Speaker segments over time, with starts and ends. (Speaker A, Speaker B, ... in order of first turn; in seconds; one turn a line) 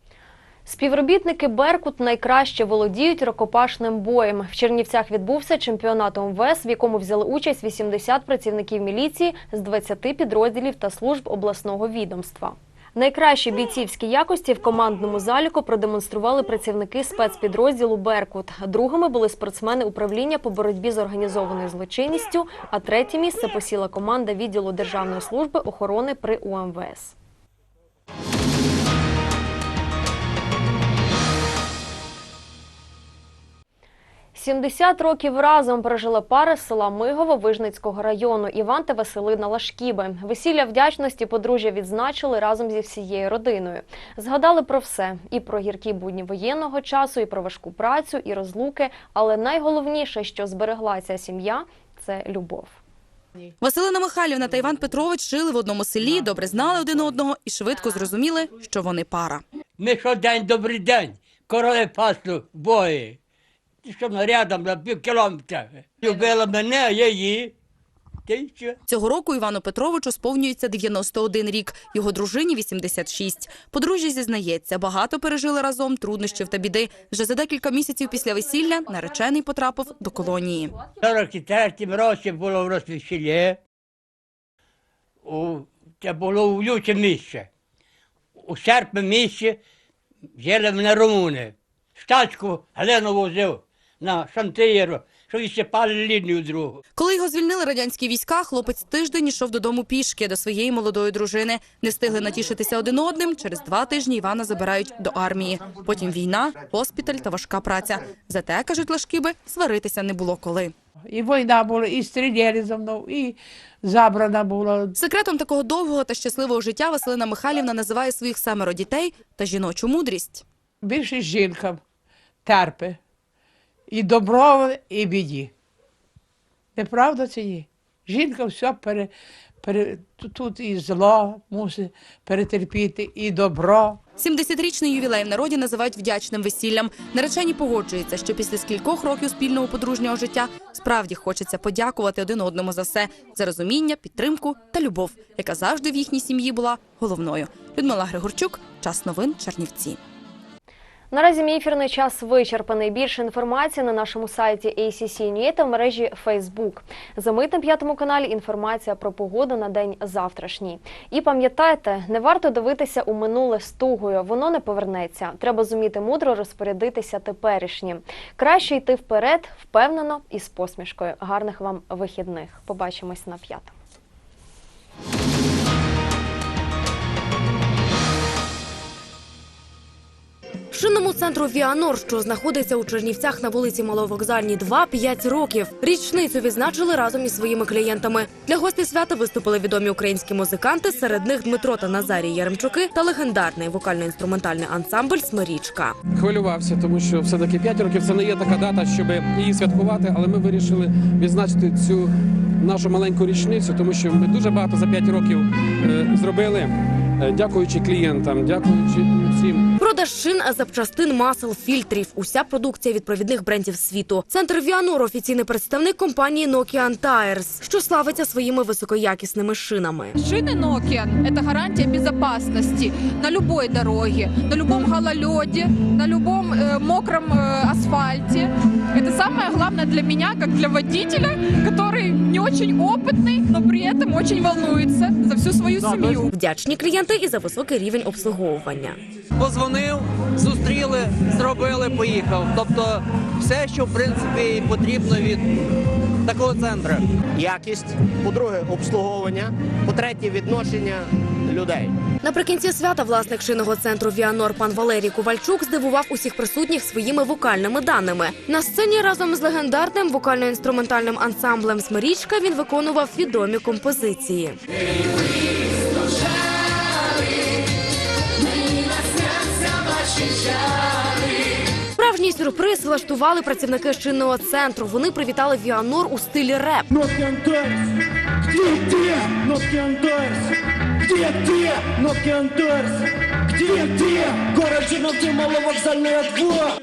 Speaker A: 0.7-27.1
Speaker A: 34.3-52.8
Speaker B: 53.6-59.4
Speaker C: 59.8-63.2
Speaker C: 63.8-67.5
Speaker C: 68.3-68.8
Speaker B: 68.9-80.9
Speaker C: 81.0-83.6
Speaker C: 85.2-87.5
Speaker C: 88.4-89.6
Speaker C: 90.4-96.8
Speaker B: 97.0-110.7
Speaker D: 111.1-114.9
Speaker B: 114.9-120.4
Speaker D: 120.8-121.8
Speaker D: 122.4-123.0
Speaker D: 123.9-125.5
Speaker D: 126.8-129.1
Speaker D: 129.6-134.0
Speaker B: 134.2-150.0
Speaker A: 151.1-173.7
Speaker E: 180.7-196.0
Speaker F: 196.1-209.7
Speaker E: 209.8-220.1
Speaker G: 220.2-236.3
Speaker H: 235.8-236.2
Speaker E: 236.3-239.0
Speaker H: 239.4-245.4
Speaker H: 246.3-247.0
Speaker I: 247.4-251.9
Speaker E: 252.2-264.6
Speaker E: 272.0-276.9
Speaker I: 276.9-277.9
Speaker I: 278.5-280.4
Speaker I: 281.0-286.7